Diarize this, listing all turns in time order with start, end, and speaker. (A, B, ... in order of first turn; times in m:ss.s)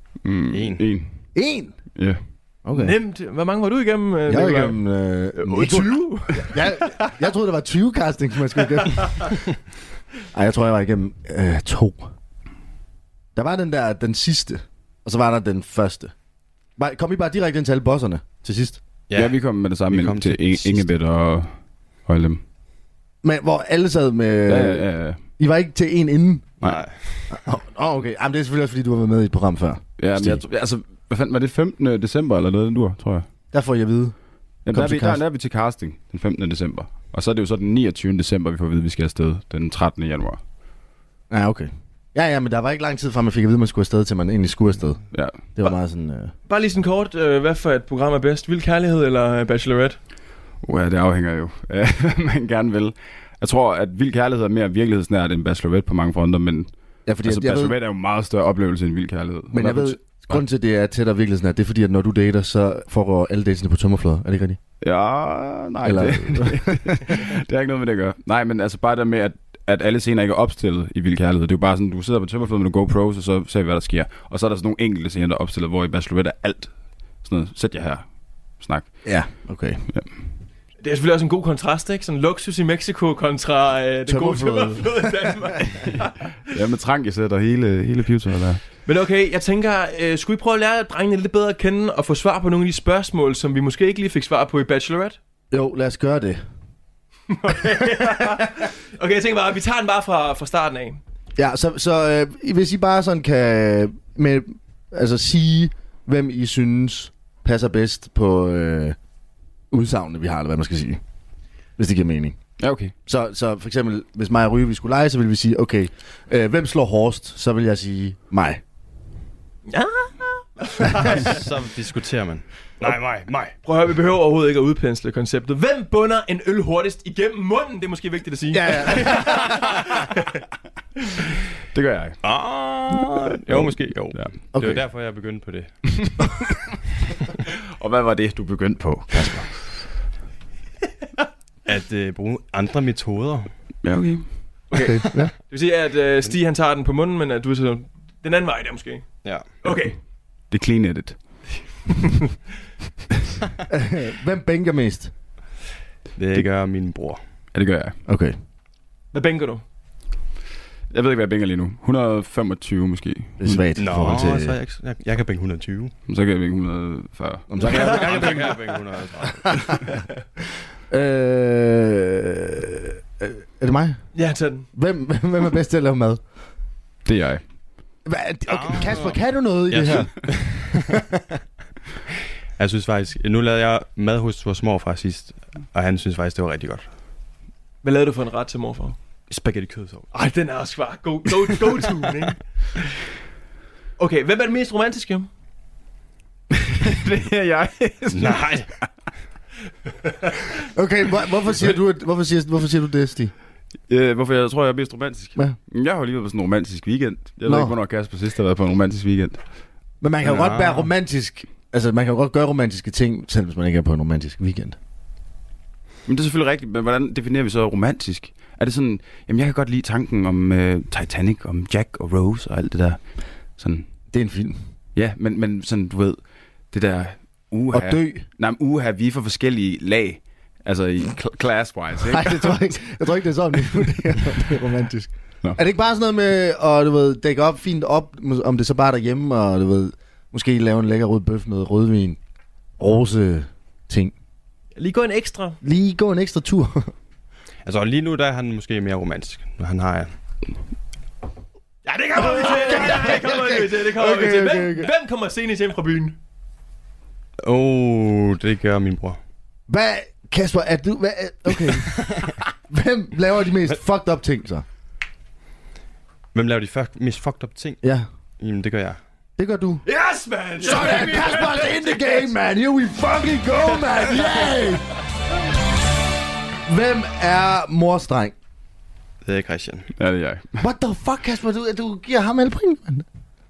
0:00.2-0:01.1 A
0:00.5-0:00.8 B
0:01.3-0:01.8 C
0:02.6-0:03.0 C
0:02.7-0:04.8 D
0:04.3-0:09.4 C
0:05.3-0:07.0 D
0:10.3-0:12.1 C
0:13.3-0:16.1 C
0:16.8-0:18.8 C
0:19.1-0:20.9 B
0:19.2-0:21.5 A
0:22.0-0:22.4 A
0:23.2-0:26.5 C
0:24.5-0:25.2 A
0:26.6-0:27.3 B
0:27.3-0:30.4 C
0:30.0-0:33.3 A
0:33.5-0:34.1 C
0:34.6-0:40.4 A
0:34.7-0:35.2 C
0:41.3-0:45.0 C
0:45.5-0:46.3 C
0:46.5-0:50.0 D
0:50.6-0:56.7 A
0:57.0-0:57.8 C
0:57.2-1:00.4 A
0:59.5-1:04.6 C
1:04.8-1:18.0 A
1:05.8-1:07.0 C
1:18.6-1:19.0 A
1:19.0-1:19.8 C
1:20.8-1:26.1 D
1:24.1-1:25.2 C
1:26.5-1:28.6 A
1:28.8-1:35.2 D
1:35.5-1:36.4 C
1:37.3-1:41.0 D
1:41.4-1:49.0 C
1:49.7-1:51.0 C
1:51.8-1:52.4 C
1:52.6-1:52.9 A
1:53.0-1:58.6 C
1:59.7-2:01.4 D
2:00.9-2:03.5 B
2:03.6-2:10.1 D
2:08.5-2:09.6 C
2:11.7-2:12.2 A
2:12.2-2:15.7 B
2:13.5-2:14.4 A
2:14.5-2:14.8 C
2:17.8-2:19.6 A
2:19.1-2:19.4 C
2:21.6-2:23.5 B
2:23.8-2:24.3 A
2:24.7-2:29.0 D
2:24.7-2:25.3 C
2:29.6-2:30.0 D
2:30.5-2:31.2 A
2:33.7-2:35.1 C
2:36.2-2:37.2 B
2:37.5-2:38.0 A
2:38.1-2:38.3 C
2:39.1-2:39.6 D
2:40.9-2:43.6 A
2:43.4-2:44.6 C
2:43.8-2:45.9 B
2:46.1-2:48.4 A
2:47.5-2:48.6 C
2:47.6-2:49.9 B
2:49.3-2:49.9 C
2:50.9-2:54.0 C
2:54.1-2:54.7 D
2:54.7-2:56.2 C
2:57.0-2:57.4 A
2:58.0-3:01.2 C
2:58.5-3:00.8 B
3:02.6-3:06.9 B
3:07.8-3:09.0 D
3:09.3-3:10.1 B
3:10.1-3:12.4 D
3:14.0-3:15.3 D
3:16.5-3:18.8 A
3:18.1-3:18.7 B
3:20.7-3:23.3 C
3:23.9-3:29.4 A
3:27.4-3:27.7 C
3:30.0-3:34.8 C
3:30.2-3:30.9 B
3:36.0-3:43.0 A
3:43.6-3:43.8 A
3:44.1-3:44.6 C
3:45.0-3:46.2 A
3:46.7-3:52.5 A
3:47.7-3:48.2 C
3:52.0-4:02.2 C
4:02.8-4:04.1 C
4:04.8-4:05.6 D
4:05.6-4:06.9 C
4:07.6-4:10.1 B
4:11.8-4:16.2 D
4:12.1-4:14.9 C
4:17.4-4:19.2 B
4:19.7-4:24.6 C
4:22.1-4:22.3 B
4:26.3-4:27.8 B
4:28.4-4:29.0 B
4:29.4-4:29.8 C
4:29.8-4:32.2 D
4:30.6-4:34.9 C
4:36.6-4:38.3 C
4:39.2-4:39.9 B
4:40.0-4:40.6 A
4:40.6-4:43.0 C